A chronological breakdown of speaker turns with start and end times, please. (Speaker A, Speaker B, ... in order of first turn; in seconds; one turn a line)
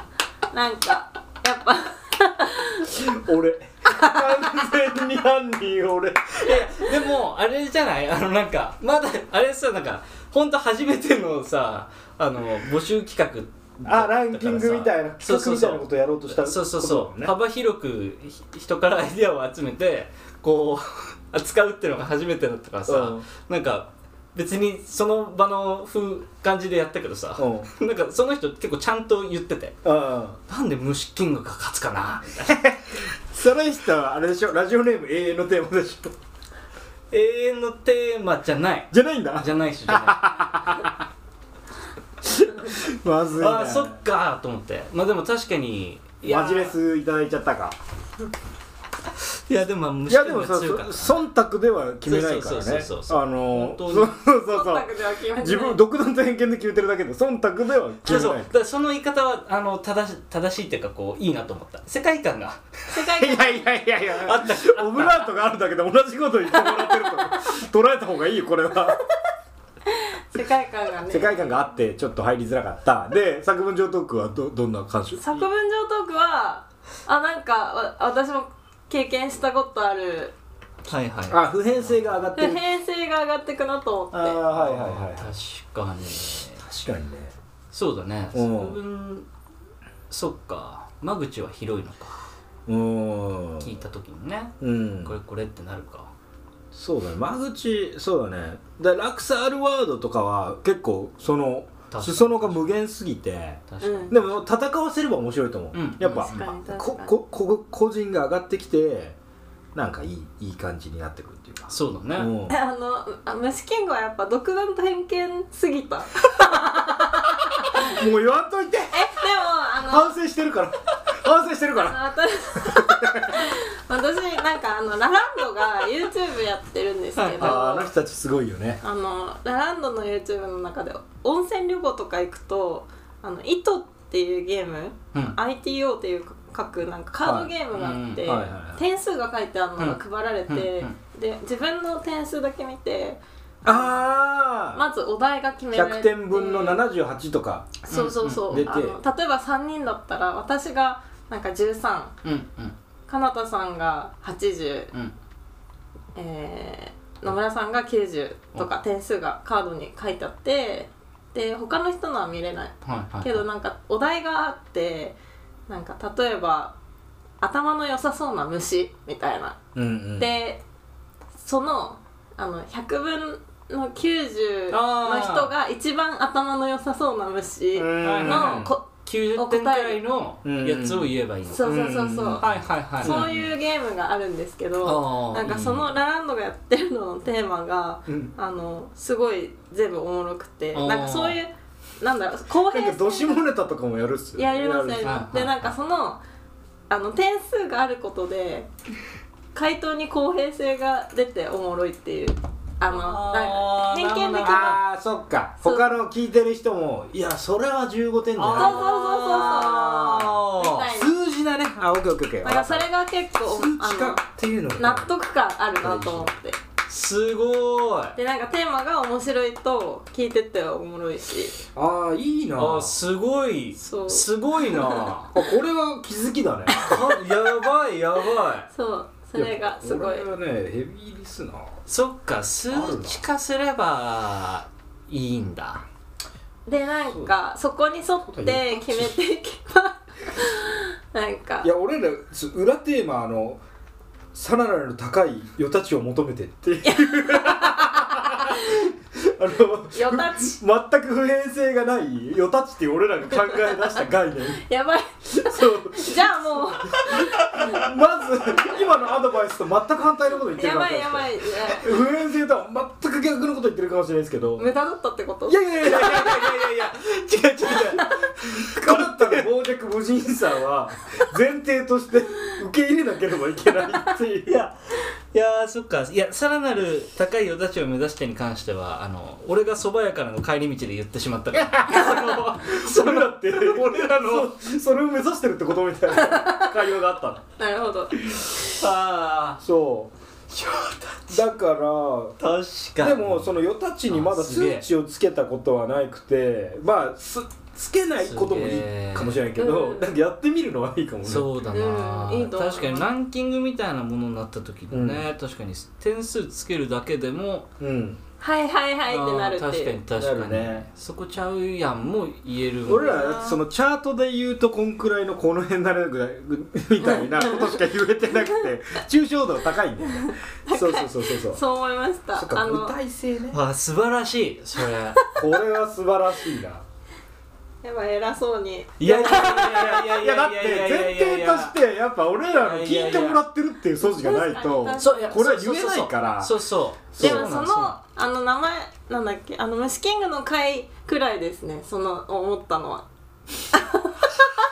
Speaker A: 0.5-3.0
Speaker B: 2.9-6.6
Speaker A: 3.9-4.5
Speaker C: 6.3-29.8
Speaker B: 13.8-17.3
Speaker B: 22.9-23.2
Speaker B: 27.4-27.7
Speaker B: 29.8-30.4
Speaker C: 30.5-32.7
Speaker B: 32.5-36.1
Speaker C: 37.1-40.5
Speaker B: 38.9-41.0
Speaker B: 42.2-44.0
Speaker C: 43.4-46.8
Speaker B: 46.2-47.8
Speaker C: 49.5-51.2
Speaker B: 50.1-58.5
Speaker C: 52.0-54.1
Speaker A: 54.4-55.8
Speaker C: 58.0-62.6
Speaker A: 62.9-63.6
Speaker B: 63.1-69.0
Speaker C: 64.2-65.3
Speaker A: 69.9-71.7
Speaker B: 71.1-75.2
Speaker A: 75.2-80.3
Speaker C: 80.9-82.2
Speaker B: 81.3-82.6
Speaker A: 82.3-84.4
Speaker B: 84.1-85.3
Speaker C: 84.5-86.6
Speaker B: 86.6-87.3
Speaker C: 87.7-89.3
Speaker B: 88.3-88.8
Speaker C: 90.1-92.2
Speaker B: 92.7-93.7
Speaker C: 93.6-96.1
Speaker B: 94.6-95.2
Speaker B: 96.7-109.2
Speaker C: 101.9-102.7
Speaker C: 103.7-104.2
Speaker A: 103.8-104.1
Speaker C: 105.7-106.5
Speaker A: 106.0-107.2
Speaker B: 109.7-112.5
Speaker C: 111.7-112.3
Speaker A: 112.5-118.0
Speaker B: 117.7-119.1
Speaker A: 118.9-120.2
Speaker B: 119.8-123.5
Speaker A: 121.8-127.9
Speaker C: 127.2-127.6
Speaker B: 127.4-128.8
Speaker A: 128.8-144.0
Speaker B: 137.2-137.6
Speaker C: 137.7-138.3
Speaker B: 138.2-138.8
Speaker C: 139.8-140.9
Speaker B: 143.6-144.8
Speaker A: 144.7-146.8
Speaker B: 145.7-147.8
Speaker A: 147.8-152.1
Speaker C: 147.9-148.6
Speaker B: 148.4-149.0
Speaker C: 152.2-152.7
Speaker A: 153.1-154.9
Speaker A: 156.1-165.2
Speaker C: 162.8-163.4
Speaker A: 165.7-166.7
Speaker A: 167.4-169.6
Speaker B: 169.7-170.3
Speaker A: 170.2-170.6
Speaker A: 171.4-180.0
Speaker C: 174.7-175.5
Speaker B: 177.7-178.7
Speaker C: 178.0-181.7
Speaker B: 180.4-182.5
Speaker A: 181.5-182.4
Speaker C: 182.4-183.5
Speaker A: 183.0-193.5
Speaker B: 183.0-183.3
Speaker C: 184.8-185.9
Speaker B: 188.1-188.3
Speaker C: 190.7-191.4
Speaker B: 192.5-195.2
Speaker A: 194.3-196.2
Speaker C: 195.0-195.7
Speaker A: 196.9-198.7
Speaker A: 199.5-204.8
Speaker C: 202.9-204.8
Speaker B: 204.3-210.3
Speaker A: 205.6-206.0
Speaker C: 208.3-210.9
Speaker A: 208.5-211.1
Speaker B: 210.9-212.9
Speaker A: 212.4-214.2
Speaker B: 213.4-215.1
Speaker A: 214.8-216.6
Speaker B: 215.8-216.3
Speaker C: 216.9-218.2
Speaker A: 218.2-221.6
Speaker B: 221.7-223.0
Speaker C: 222.6-225.3
Speaker A: 223.8-225.1
Speaker B: 224.9-227.0
Speaker A: 226.7-227.0
Speaker C: 226.8-228.7
Speaker A: 228.7-230.3
Speaker B: 229.3-231.8
Speaker C: 231.9-235.8
Speaker B: 232.7-233.2
Speaker A: 236.7-241.7
Speaker B: 237.1-237.3
Speaker B: 238.3-239.2
Speaker B: 241.6-243.6
Speaker B: 244.3-254.6
Speaker A: 246.8-248.9
Speaker A: 249.9-250.6
Speaker A: 253.6-253.9
Speaker A: 254.6-257.9
Speaker B: 255.3-264.7
Speaker A: 260.5-261.9
Speaker A: 264.6-266.4
Speaker B: 265.5-266.9
Speaker C: 265.9-269.5
Speaker B: 267.7-267.9
Speaker A: 267.7-268.1
Speaker B: 268.4-274.6
Speaker C: 274.4-274.7
Speaker C: 275.3-284.5
Speaker B: 281.5-287.4
Speaker A: 286.1-286.7
Speaker A: 287.6-288.4
Speaker C: 288.6-289.6
Speaker B: 289.6-290.1
Speaker C: 290.5-291.4
Speaker B: 291.3-292.3
Speaker C: 292.4-294.9
Speaker B: 293.0-301.5
Speaker C: 298.2-299.4
Speaker A: 299.6-300.1
Speaker C: 301.2-307.7
Speaker A: 301.7-303.1
Speaker B: 304.9-305.3
Speaker B: 307.8-308.2
Speaker A: 308.4-310.0
Speaker C: 309.1-313.4
Speaker B: 310.1-310.9
Speaker B: 312.8-321.6
Speaker A: 312.9-313.6
Speaker A: 317.0-318.5
Speaker A: 320.1-322.9
Speaker B: 322.3-323.6
Speaker C: 323.5-325.2
Speaker B: 325.3-326.8
Speaker A: 327.8-329.9
Speaker C: 329.0-331.8
Speaker B: 329.0-336.6
Speaker C: 332.6-333.4
Speaker A: 334.0-335.4
Speaker C: 335.0-337.9
Speaker B: 337.1-337.5
Speaker A: 337.2-343.0
Speaker A: 343.7-344.5